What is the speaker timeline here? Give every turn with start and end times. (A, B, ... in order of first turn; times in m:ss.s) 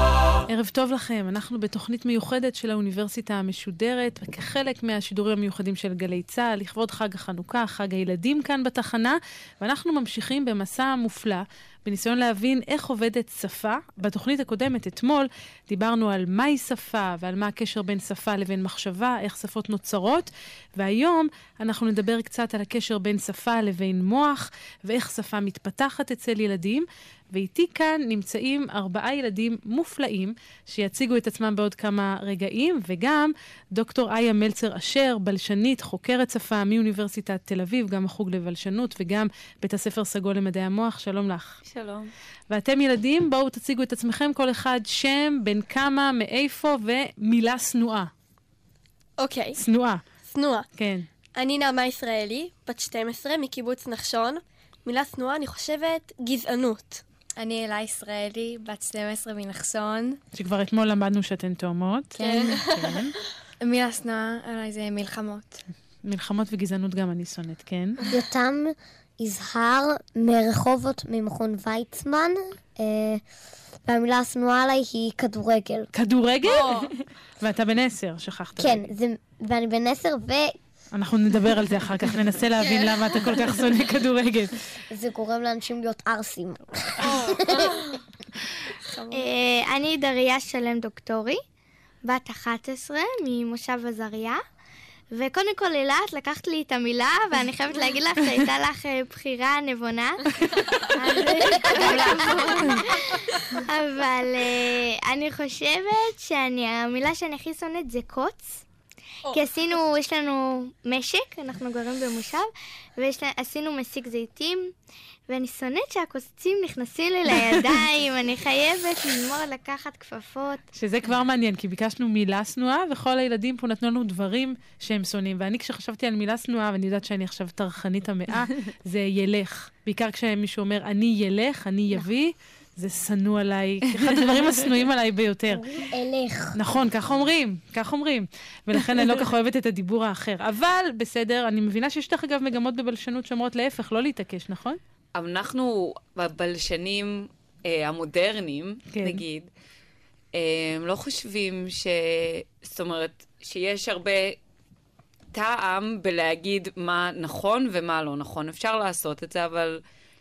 0:00.5-0:41.6 A
0:41.7-0:42.1 B
0:42.5-0:48.1 A
0:49.2-0:49.6 C
0:49.6-0:50.0 A
0:50.3-0:50.7 C
0:50.8-0:51.0 A
0:51.4-0:57.0 C
0:57.4-1:00.2 D
1:00.3-1:03.1 A
1:02.2-1:02.7 D
1:02.2-1:02.7 C
1:03.6-1:05.6 D
1:06.0-1:08.0 A
1:08.1-1:13.2 E
1:13.9-1:15.9 E
1:15.9-1:16.8 A
1:17.4-1:18.8 A
1:18.6-1:20.6 E
1:20.9-1:24.5 A
1:24.9-1:27.8 E
1:27.0-1:28.0 D
1:28.9-1:29.3 D
1:29.1-1:31.4 F
1:32.0-1:34.4 F
1:35.1-1:48.6 F
1:41.8-1:42.2 B
1:49.3-1:54.7 F
1:55.3-2:00.6 F
2:00.8-2:15.6 A
2:14.1-2:14.5 B
2:15.5-2:16.6 E
2:16.6-2:24.8 A
2:25.2-2:29.5 B
2:28.9-2:29.2 A
2:30.3-2:34.4 B
2:35.3-2:39.8 B